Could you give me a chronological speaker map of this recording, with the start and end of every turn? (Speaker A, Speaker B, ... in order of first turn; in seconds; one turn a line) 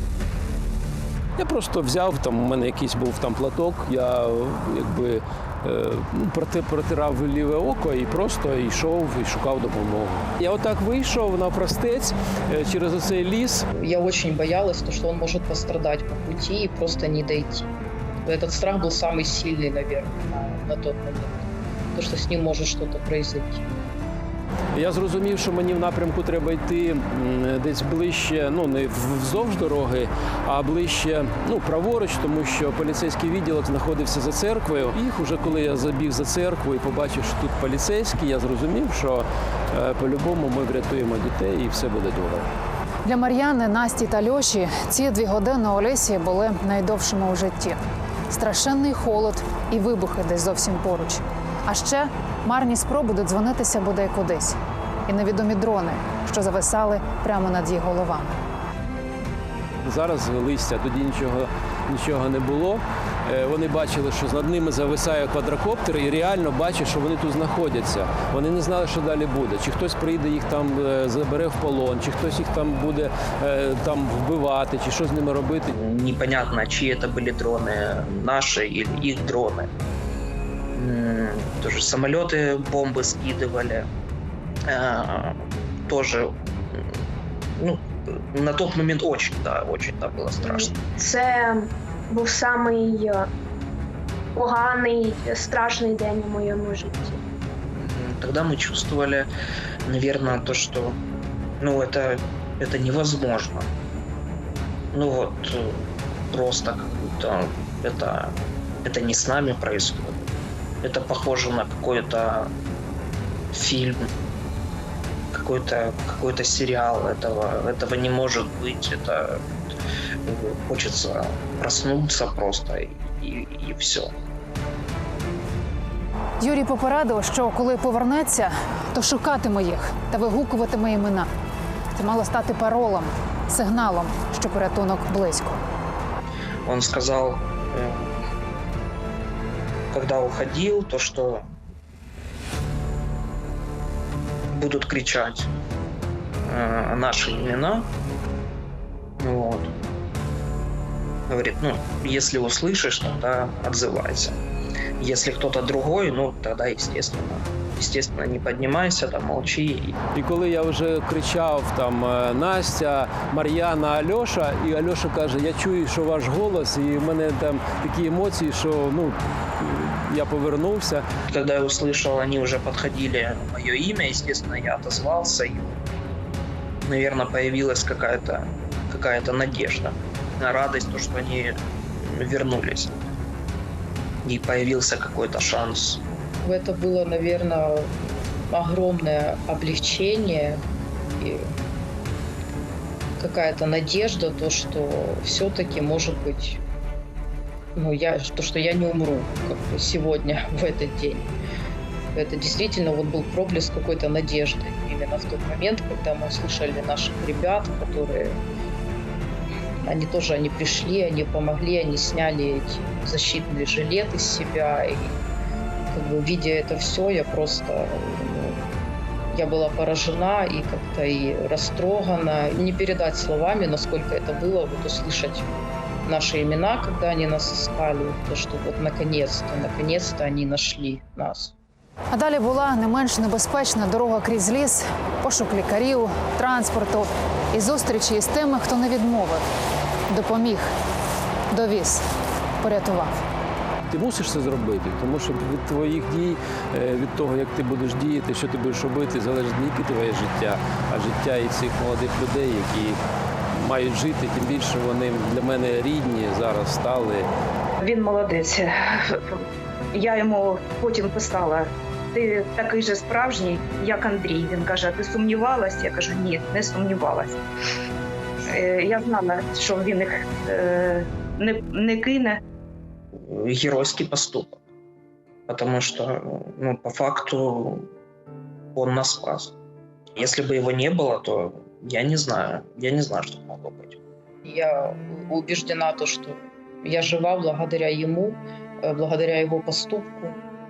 Speaker A: 1.4-13.7
Speaker B: 13.7-17.7
Speaker B: 18.2-23.6
Speaker A: 24.7-42.5
Speaker C: 43.0-58.4
Speaker A: 59.8-75.7
Speaker D: 75.7-79.7
Speaker D: 80.7-83.9
Speaker D: 84.7-87.0
Speaker D: 87.6-90.7
Speaker E: 90.4-93.3
Speaker E: 94.3-97.2
Speaker D: 97.8-99.3
Speaker D: 99.8-101.0
Speaker D: 101.6-103.7
Speaker D: 104.9-110.3
Speaker D: 110.8-112.5
Speaker D: 113.5-114.1
Speaker D: 115.3-119.5
Speaker D: 120.2-124.1
Speaker C: 126.4-131.3
Speaker C: 131.9-135.6
Speaker D: 136.7-138.1
Speaker D: 139.9-141.5
Speaker D: 144.5-145.5
Speaker D: 146.4-147.9
Speaker D: 149.2-149.8
Speaker D: 151.3-154.4
Speaker D: 155.0-160.0
Speaker A: 160.1-171.0
Speaker D: 171.3-175.8
Speaker D: 176.8-183.0
Speaker D: 184.2-186.0
Speaker B: 186.4-187.9
Speaker B: 188.5-190.6
Speaker B: 191.2-191.5
Speaker B: 193.2-196.6
Speaker B: 197.8-201.3
Speaker B: 202.1-208.4
Speaker B: 209.8-215.2
Speaker B: 215.9-218.6
Speaker B: 219.3-225.5
Speaker B: 226.1-231.5
Speaker C: 232.1-239.5
Speaker C: 240.1-240.7
Speaker C: 241.5-242.0
Speaker C: 242.6-243.2
Speaker A: 243.9-253.0
Speaker A: 253.5-257.3
Speaker F: 257.8-267.4
Speaker F: 268.5-272.4
Speaker D: 273.1-274.6
Speaker D: 275.5-277.9
Speaker D: 278.7-279.5
Speaker D: 280.1-284.0
Speaker B: 284.4-290.4